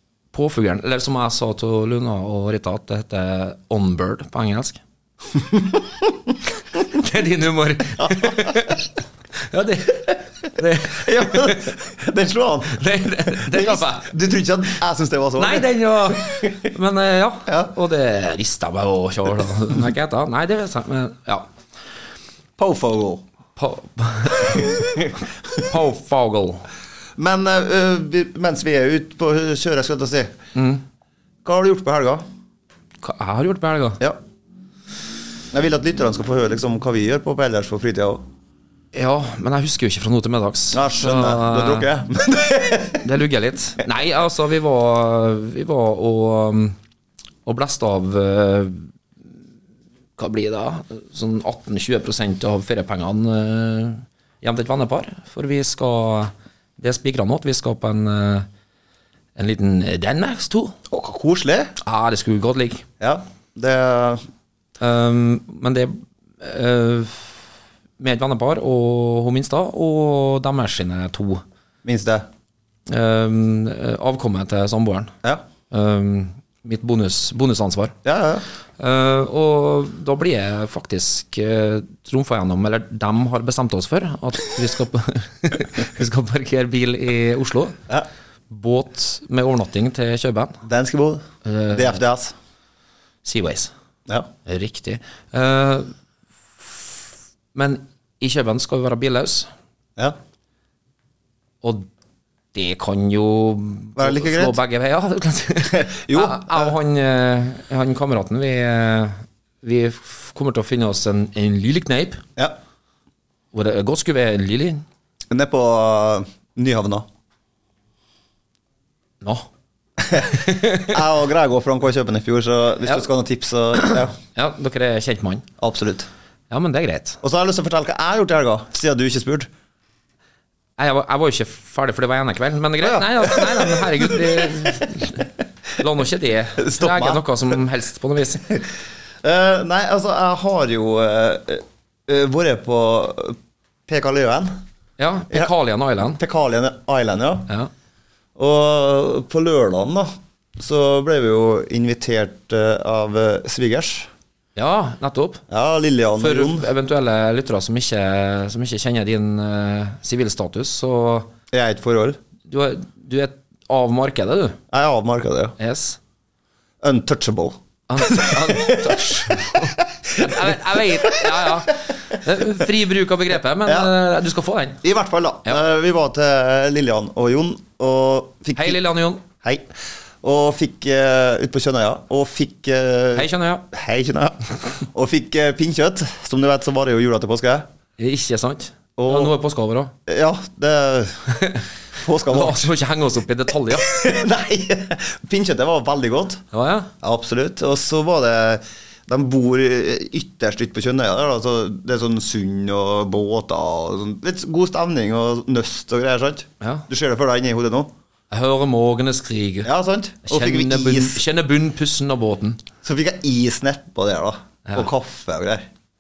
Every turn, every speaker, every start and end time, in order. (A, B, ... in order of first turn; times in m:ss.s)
0:00.3-0:04.8 A
0:05.3-0:06.3 B
0:06.8-0:08.9 A
0:08.0-0:08.8 B
0:09.5-0:11.7 A
0:10.8-0:16.5 B
0:12.7-0:14.1 A
0:15.4-0:21.5 A
0:17.5-0:17.7 B
0:22.6-0:23.2 B
0:23.6-0:26.7 A
0:24.5-0:25.1 B
0:27.2-0:30.4 B
0:30.6-0:30.8 A
0:31.4-0:32.2 B
0:33.0-0:34.0 A
0:35.5-0:38.2 B
0:38.9-0:41.9 A
0:40.7-0:43.1 B
0:43.0-0:46.8 A
0:47.5-0:48.9 A
0:50.2-0:58.5 A
0:59.4-1:00.8 A
1:00.9-1:01.8 B
1:01.8-1:02.8 A
1:03.0-1:04.2 B
1:04.8-1:07.4 A
1:08.0-1:11.4 A
1:11.8-1:12.3 B
1:12.9-1:15.1 A
1:15.7-1:18.0 A
1:18.0-1:18.4 B
1:18.8-1:27.8 A
1:28.5-1:30.6 A
1:30.6-1:32.3 B
1:31.4-1:32.0 A
1:33.2-1:33.7 A
1:34.5-1:35.9 A
1:36.6-1:37.0 A
1:37.5-1:39.5 A
1:41.6-1:41.9 A
1:42.5-1:52.2 A
1:44.0-1:44.6 B
1:45.7-1:46.7 B
1:53.5-1:54.8 A
1:55.3-1:57.1 B
1:59.2-1:59.5 A
2:00.0-2:04.1 B
2:00.3-2:01.0 A
2:03.8-2:05.5 A
2:05.6-2:06.1 B
2:06.5-2:07.2 A
2:07.2-2:09.5 B
2:10.8-2:18.5 A
2:12.8-2:14.9 B
2:16.6-2:17.2 B
2:19.2-2:24.6 B
2:25.0-2:26.2 A
2:26.2-2:27.5 B
2:28.4-2:34.1 B
2:34.6-2:35.4 A
2:35.5-2:36.7 B
2:36.2-2:41.3 A
2:41.5-2:42.2 B
2:42.5-2:44.6 A
2:44.7-2:45.6 B
2:45.6-2:46.0 A
2:46.8-2:51.6 B
2:47.9-2:54.8 A
2:53.7-2:53.9 B
2:54.8-2:58.8 B
2:58.6-2:59.2 A
2:59.4-2:59.7 B
3:00.2-3:07.7 B
3:03.1-3:03.7 A
3:08.0-3:09.9 A
3:09.0-3:09.3 B
3:10.1-3:11.3 B
3:11.3-3:11.6 A
3:12.0-3:12.7 B
3:12.3-3:14.1 A
3:13.7-3:16.4 B
3:16.5-3:16.9 A
3:17.0-3:27.9 B
3:26.6-3:26.9 A
3:28.3-3:29.7 A
3:29.6-3:31.2 B
3:30.2-3:32.6 A
3:32.8-3:35.7 B